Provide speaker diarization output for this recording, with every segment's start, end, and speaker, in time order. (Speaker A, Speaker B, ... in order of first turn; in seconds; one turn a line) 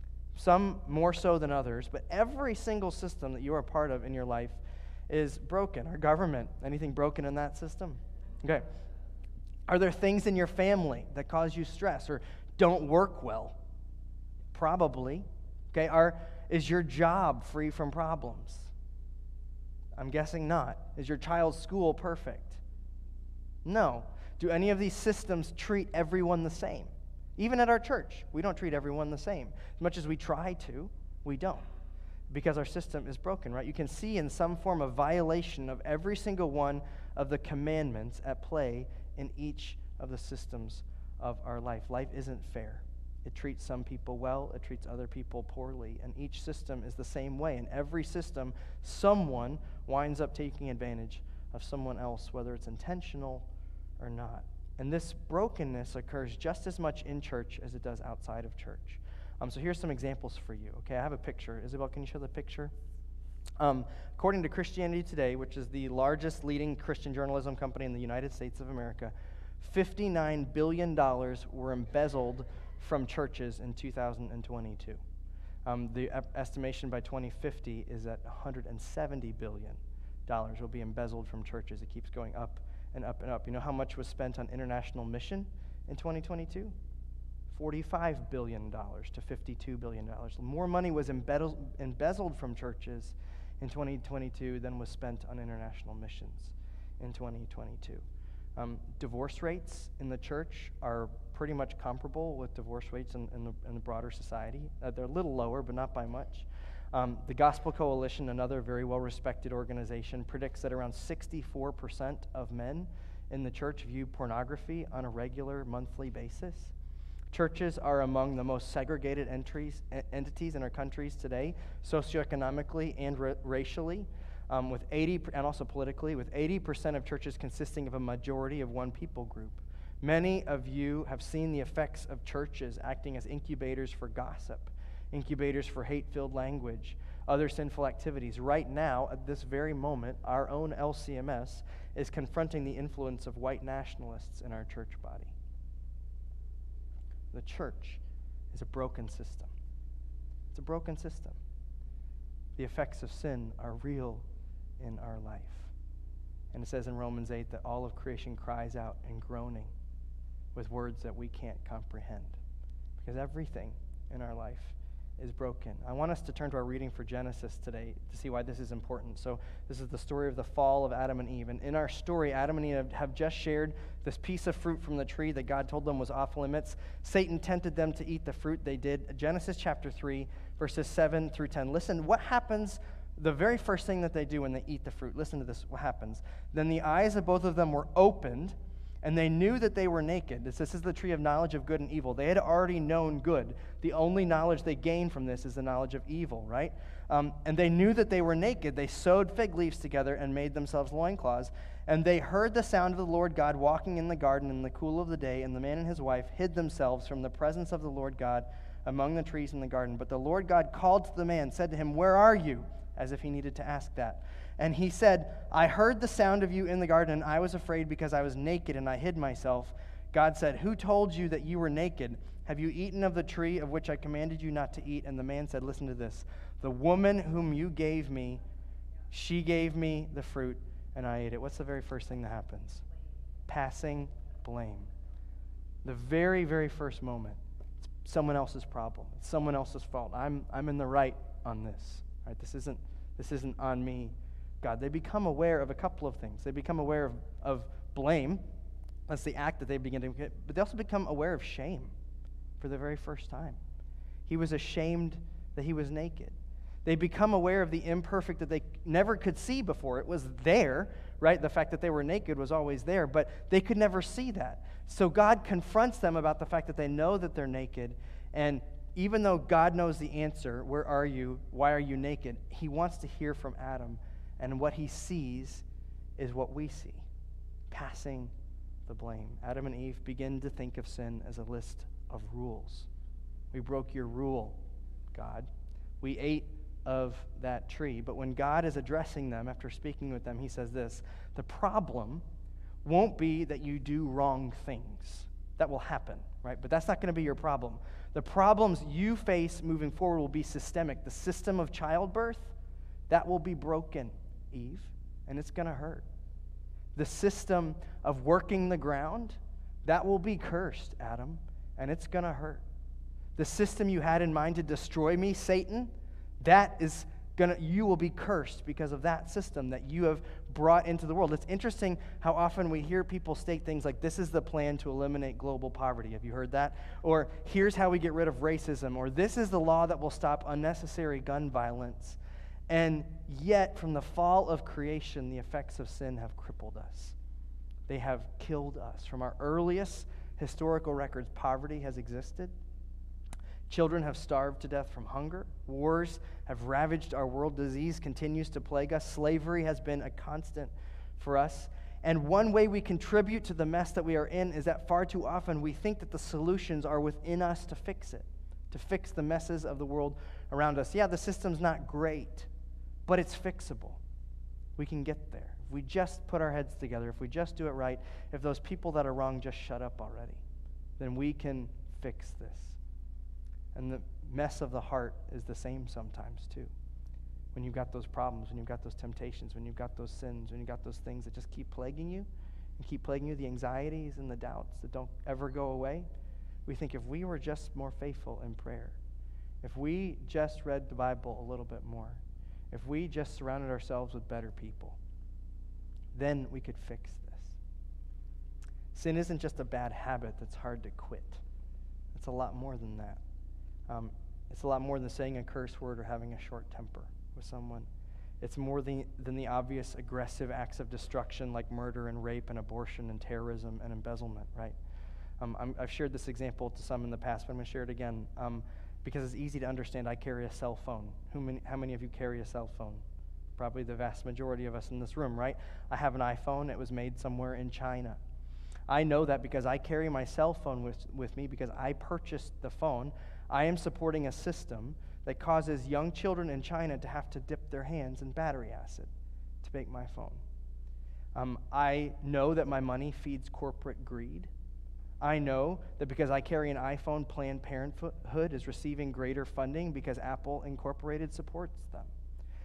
Speaker A: 0.3-8.7
Speaker A: 9.7-13.6
Speaker A: 14.5-18.7
Speaker A: 20.0-22.6
Speaker A: 23.6-31.7
Speaker A: 32.3-53.5
Speaker A: 54.0-62.7
Speaker A: 63.6-75.0
Speaker A: 75.7-86.8
Speaker A: 87.5-98.0
Speaker A: 98.6-116.7
Speaker A: 117.3-145.3
Speaker A: 147.3-148.0
Speaker A: 148.5-149.5
Speaker A: 150.5-151.4
Speaker A: 152.6-154.2
Speaker A: 154.8-155.7
Speaker A: 156.5-159.7
Speaker A: 160.5-162.4
Speaker A: 163.0-228.4
Speaker A: 229.1-232.8
Speaker A: 233.5-234.9
Speaker A: 235.8-237.4
Speaker A: 238.0-248.4
Speaker A: 249.1-251.9
Speaker A: 252.6-253.6
Speaker A: 254.3-275.6
Speaker A: 276.2-277.1
Speaker A: 277.7-278.3
Speaker A: 278.9-282.9
Speaker A: 283.5-284.6
Speaker A: 285.1-285.5
Speaker A: 286.0-292.2
Speaker A: 292.8-302.5
Speaker A: 303.1-306.1
Speaker A: 306.9-312.6
Speaker A: 313.4-332.2
Speaker A: 332.7-337.1
Speaker A: 337.9-342.5
Speaker A: 343.7-362.5
Speaker A: 363.1-364.0
Speaker A: 364.8-370.4
Speaker A: 371.0-372.8
Speaker A: 373.7-376.7
Speaker A: 377.5-386.1
Speaker A: 386.7-389.0
Speaker A: 389.6-395.0
Speaker A: 396.1-397.6
Speaker A: 398.9-401.4
Speaker A: 402.1-403.2
Speaker A: 403.9-407.9
Speaker A: 408.4-414.8
Speaker A: 415.4-423.0
Speaker A: 423.6-428.2
Speaker A: 428.9-439.1
Speaker A: 439.6-440.4
Speaker A: 441.4-444.5
Speaker A: 445.2-452.1